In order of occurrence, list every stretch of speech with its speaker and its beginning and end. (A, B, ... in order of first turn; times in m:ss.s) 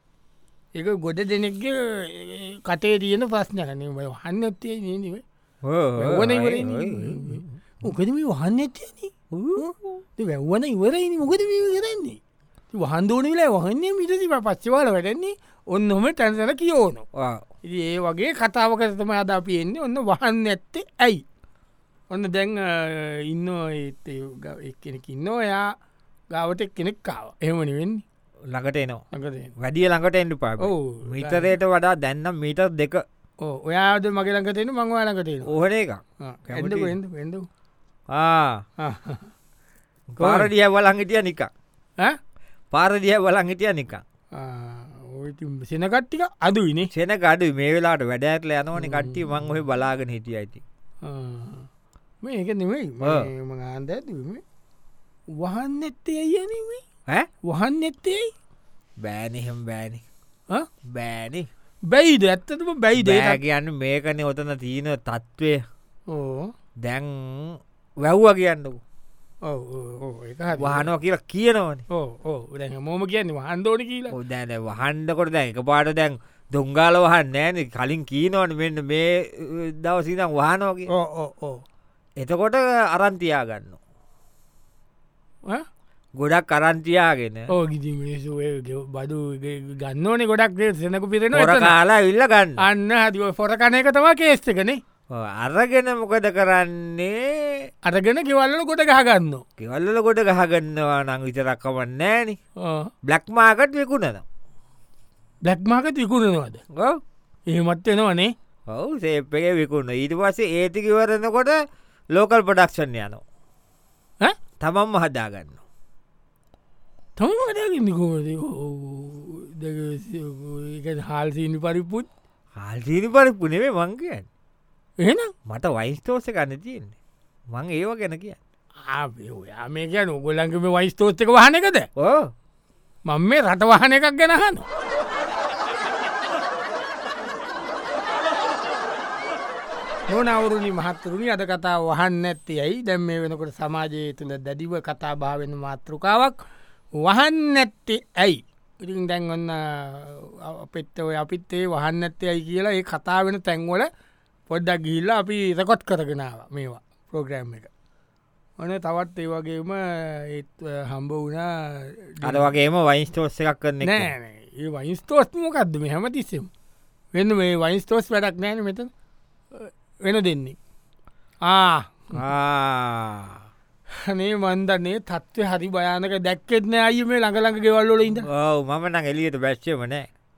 0:00.7-0:05.2 A
0:05.6-0:07.5 B
0:06.0-0:12.2 A
0:09.3-0:09.8 B
0:12.7-0:17.0 A
0:17.1-0:17.4 B
0:17.6-0:21.2 A
0:22.1-0:25.7 A
0:26.3-0:28.0 A
0:28.5-0:29.0 B
0:29.1-0:29.5 A
0:29.6-0:33.0 B
0:30.6-0:31.5 A
0:33.4-0:35.5 A
0:35.4-0:36.9 B
0:36.2-0:37.5 A
0:38.1-0:38.6 B
0:38.8-0:39.3 A
0:40.1-0:41.5 B
0:40.2-0:40.5 A
0:42.7-0:44.0 B
0:44.3-0:46.9 A
0:46.9-0:50.6 B
0:48.8-0:49.2 A
0:51.0-0:51.7 A
0:52.2-0:54.4 A
0:53.0-0:53.3 B
0:55.4-0:56.8 A
0:57.4-0:58.3 A
0:59.0-1:00.0 B
1:00.8-1:01.5 B
1:01.9-1:03.4 A
1:02.9-1:05.6 B
1:06.1-1:06.5 A
1:06.8-1:08.8 B
1:09.4-1:10.9 A
1:10.6-1:11.8 B
1:11.9-1:14.1 A
1:14.1-1:20.9 B
1:20.9-1:21.6 A
1:22.2-1:23.8 B
1:26.2-1:27.5 B
1:27.5-1:31.7 A
1:31.3-1:32.6 B
1:32.6-1:34.8 A
1:35.1-1:37.7 B
1:37.8-1:39.4 A
1:39.6-1:42.4 B
1:42.6-1:42.9 A
1:43.0-1:44.2 B
1:45.4-1:46.6 A
1:46.7-1:47.0 B
1:47.5-1:48.3 A
1:48.7-1:51.6 B
1:52.1-1:53.2 B
1:54.6-1:55.6 B
1:57.2-2:02.1 A
2:02.6-2:04.2 B
2:05.0-2:05.3 A
2:05.5-2:06.9 B
2:07.5-2:08.4 B
2:08.9-2:11.9 A
2:12.0-2:12.3 B
2:13.0-2:14.6 A
2:20.1-2:26.4 A
2:26.9-2:33.9 A
2:34.5-2:37.7 A
2:38.6-2:42.5 A
2:42.2-2:44.1 B
2:43.8-2:46.5 A
2:47.1-2:48.9 A
2:49.5-2:50.6 A
2:51.4-2:52.2 A
2:52.1-2:53.4 B
2:54.0-2:58.3 A
2:58.2-3:00.1 B